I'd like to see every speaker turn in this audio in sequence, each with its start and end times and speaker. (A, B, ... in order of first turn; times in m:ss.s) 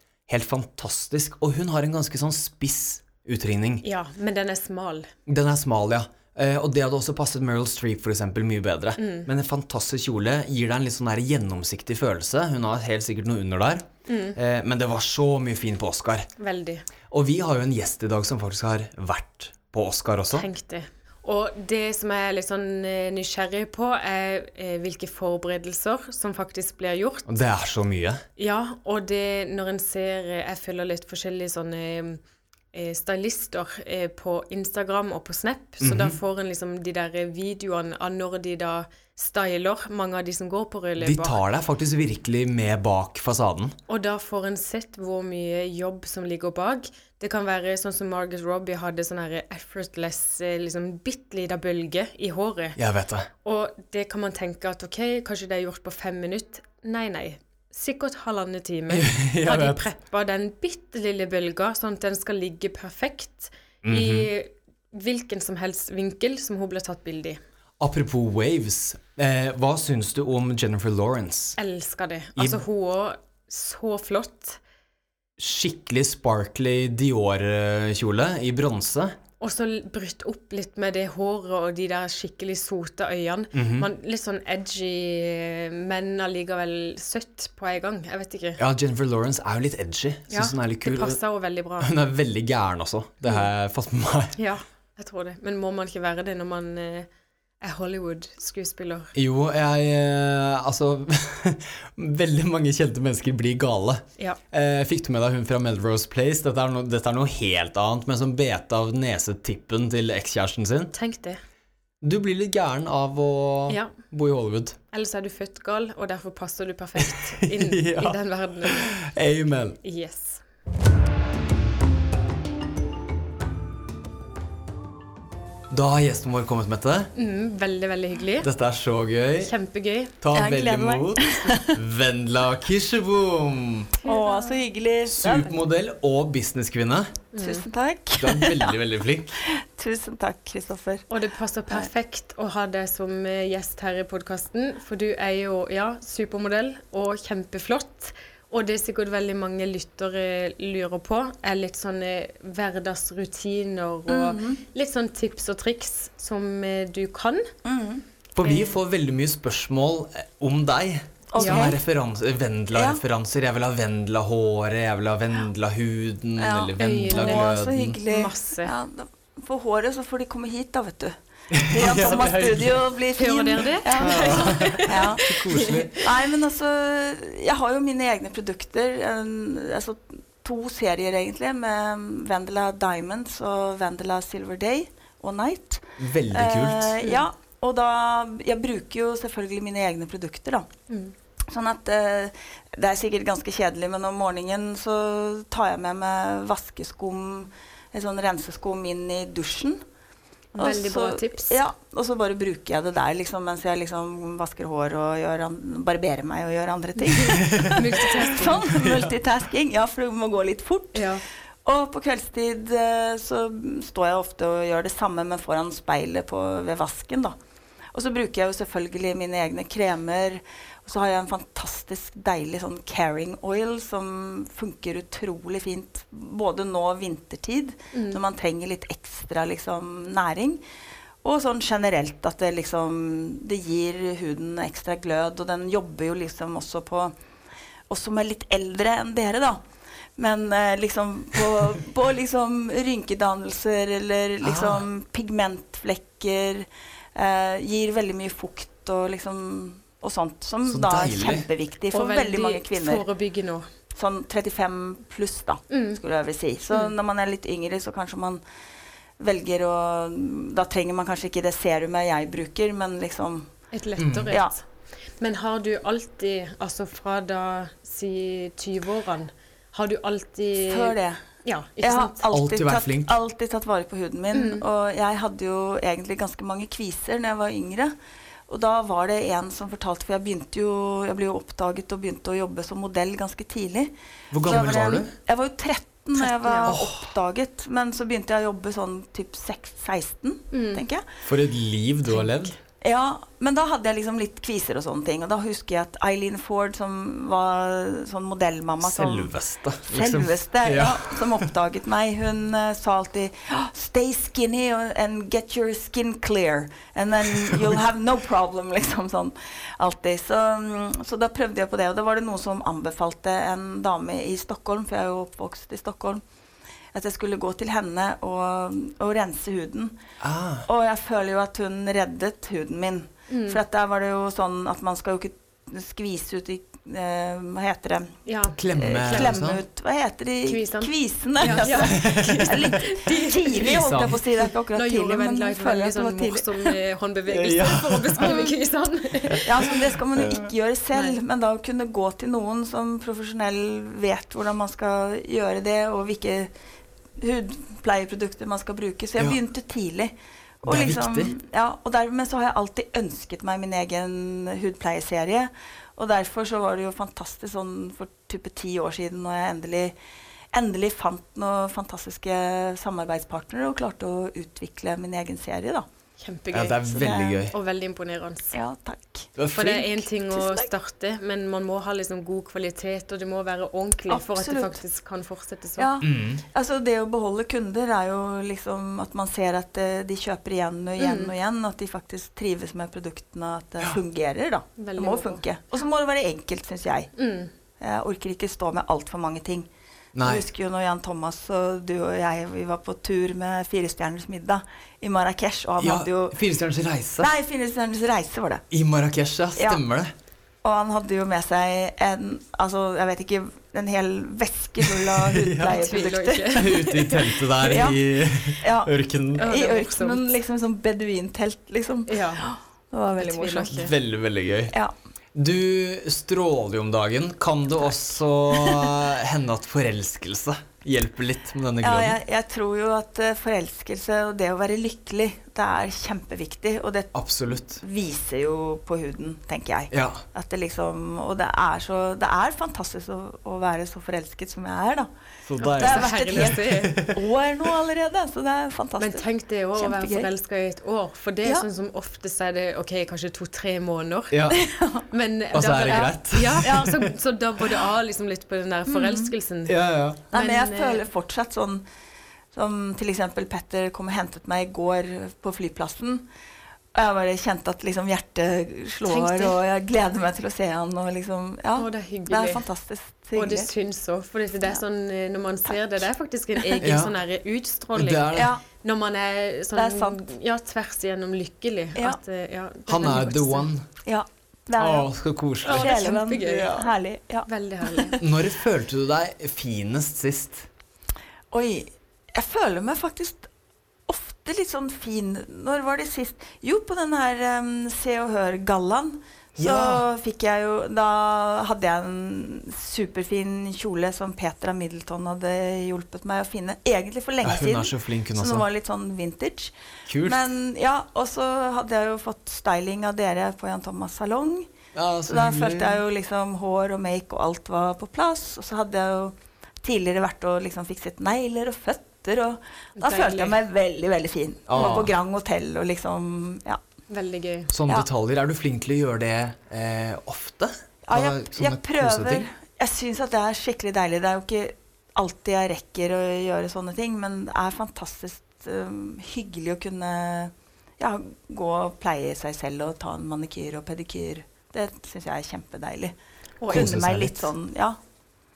0:00.3-0:03.8 A
0:03.8-0:05.1 B
0:05.3-0:16.3 A
0:09.0-0:09.3 B
0:14.1-0:14.4 B
0:16.4-0:16.9 B
0:17.1-0:20.5 A
0:20.3-0:27.3 B
0:27.3-0:28.2 A
0:28.4-0:32.2 B
0:32.7-0:41.4 B
0:35.8-0:36.2 A
0:41.0-0:43.8 A
0:43.9-0:52.8 B
0:52.8-0:53.3 A
0:53.4-1:07.4 B
0:58.9-0:59.8 A
1:03.8-1:04.3 A
1:07.8-1:11.6 A
1:11.6-1:14.6 B
1:12.4-1:12.6 A
1:15.4-1:19.2 A
1:19.4-1:28.6 B
1:23.5-1:23.9 A
1:28.6-1:31.2 A
1:30.3-1:31.9 B
1:31.8-1:34.4 A
1:34.4-1:37.1 B
1:37.6-1:39.1 B
1:39.2-1:51.0 A
1:50.9-1:51.4 B
1:52.0-1:54.8 A
1:54.9-1:59.0 B
1:57.0-1:59.8 A
1:59.8-2:00.4 B
2:05.7-2:07.1 A
2:07.2-2:08.5 B
2:08.4-2:09.5 A
2:09.4-2:10.2 B
2:10.2-2:14.0 A
2:10.3-2:11.8 C
2:14.0-2:14.6 B
2:14.0-2:15.5 C
2:15.1-2:17.2 A
2:17.3-2:17.6 B
2:17.4-2:18.8 C
2:18.2-2:19.3 A
2:19.4-2:21.1 C
2:21.1-2:37.5 B
2:34.1-2:34.6 C
2:37.6-2:38.0 C
2:38.4-2:48.0 A
2:38.4-2:38.8 B
2:41.3-2:41.8 C
2:41.4-2:41.7 B
2:42.7-2:43.0 C
2:46.4-3:10.7 C
2:46.8-2:48.7 B
2:51.5-2:52.8 A
2:53.2-2:56.1 B
2:54.0-2:56.0 A
3:06.0-3:07.0 A
3:11.5-3:19.8 C
3:20.6-3:31.1 C
3:20.6-3:21.6 B
3:27.1-3:28.7 B
3:27.3-3:27.8 A
3:28.6-3:29.1 A
3:30.9-3:31.2 B
3:31.6-3:37.4 C
3:37.9-3:50.6 C
3:47.9-3:48.2 B
3:51.2-3:57.1 C
3:57.9-3:59.6 C
4:00.2-4:13.0 C
4:04.4-4:04.8 A
4:10.7-4:11.5 A
4:11.9-4:13.7 B
4:14.0-4:18.4 C
4:15.7-4:16.0 B
4:19.2-4:23.5 C
4:23.7-4:24.6 B
4:24.0-4:24.4 A
4:24.3-4:24.5 C
4:25.2-4:32.3 B
4:30.6-4:31.2 C
4:31.8-4:37.9 C
4:32.3-4:33.2 A
4:34.3-4:34.6 B
4:38.5-4:43.9 C
4:44.3-4:45.2 A
4:44.4-4:51.1 C
4:46.2-4:46.7 B
4:46.7-4:47.1 A
4:50.5-4:50.8 B
4:51.2-4:52.5 A
4:52.1-4:52.4 B
4:52.8-4:59.4 C
4:58.8-5:01.5 A
4:59.9-5:16.2 C
5:16.9-5:20.0 C
5:20.2-5:20.7 A
5:20.7-5:28.2 C
5:23.3-5:23.6 B
5:28.3-5:29.5 B
5:28.5-5:29.6 A
5:28.7-5:36.8 C
5:30.5-5:39.7 B
5:31.4-5:32.8 A
5:33.5-5:34.2 A
5:37.3-5:38.3 A
5:38.2-5:38.5 C
5:39.4-5:46.5 C
5:40.2-5:40.5 A
5:47.2-6:00.0 C
5:50.7-5:51.4 A
6:00.5-6:05.9 C
6:06.2-6:08.6 B
6:06.5-6:07.5 A
6:06.9-6:07.4 C
6:08.5-6:09.3 C
6:09.4-6:10.1 A
6:09.6-6:15.9 B
6:10.3-6:10.7 C
6:14.1-6:14.8 C
6:15.8-6:27.1 C
6:16.0-6:16.4 A
6:21.0-6:21.3 B
6:24.8-6:25.4 B
6:27.2-6:27.5 B
6:27.8-6:29.7 C
6:30.2-6:30.4 A
6:30.2-6:36.4 C
6:35.8-6:37.3 A
6:37.2-6:38.6 C
6:38.7-6:40.1 A
6:39.6-6:39.8 C
6:40.6-6:46.7 C
6:45.1-6:45.9 A
6:45.6-6:47.4 B
6:46.5-6:49.5 A
6:47.6-6:53.9 C
6:49.4-6:50.3 B
6:52.1-6:52.5 B
6:53.2-6:53.9 B
6:53.7-6:54.8 A
6:55.4-7:02.2 A
6:58.5-6:58.9 C
7:01.8-7:15.1 C
7:07.1-7:07.8 A
7:09.9-7:10.2 A
7:15.5-7:17.2 A
7:15.6-7:19.2 C
7:15.6-7:17.1 B
7:19.0-7:24.6 B
7:19.8-7:20.3 C
7:24.3-7:24.6 A
7:24.5-7:25.1 C
7:25.1-7:29.8 B
7:25.5-7:27.1 A
7:25.9-7:26.1 C
7:26.6-7:27.0 C
7:28.9-7:29.3 C
7:29.6-7:30.2 A
7:30.3-7:31.0 B
7:30.3-7:31.8 C
7:32.5-7:36.3 C
7:36.9-7:43.7 C
7:39.1-7:39.6 B
7:41.8-7:42.6 B
7:43.4-7:53.7 B
7:46.8-7:47.1 A
7:48.0-7:48.5 A
7:48.3-7:48.6 C
7:49.8-7:50.2 C
7:52.9-7:53.9 A
7:54.0-7:55.1 C
7:54.8-7:56.0 A
7:55.6-7:56.9 B
7:55.6-7:58.2 C
7:57.5-7:58.2 B
7:58.2-8:00.7 A
8:01.5-8:03.5 C
8:04.1-8:24.7 C
8:09.6-8:10.0 A
8:17.4-8:18.6 A
8:20.1-8:20.4 A
8:24.9-8:26.0 A
8:25.3-8:36.8 C
8:33.0-8:33.6 B
8:34.7-8:35.1 A
8:34.8-8:35.0 B
8:37.1-8:37.7 B
8:37.7-8:42.5 A
8:41.0-8:56.1 C
8:56.6-8:56.9 B
8:56.7-8:58.0 C
8:56.7-8:57.5 A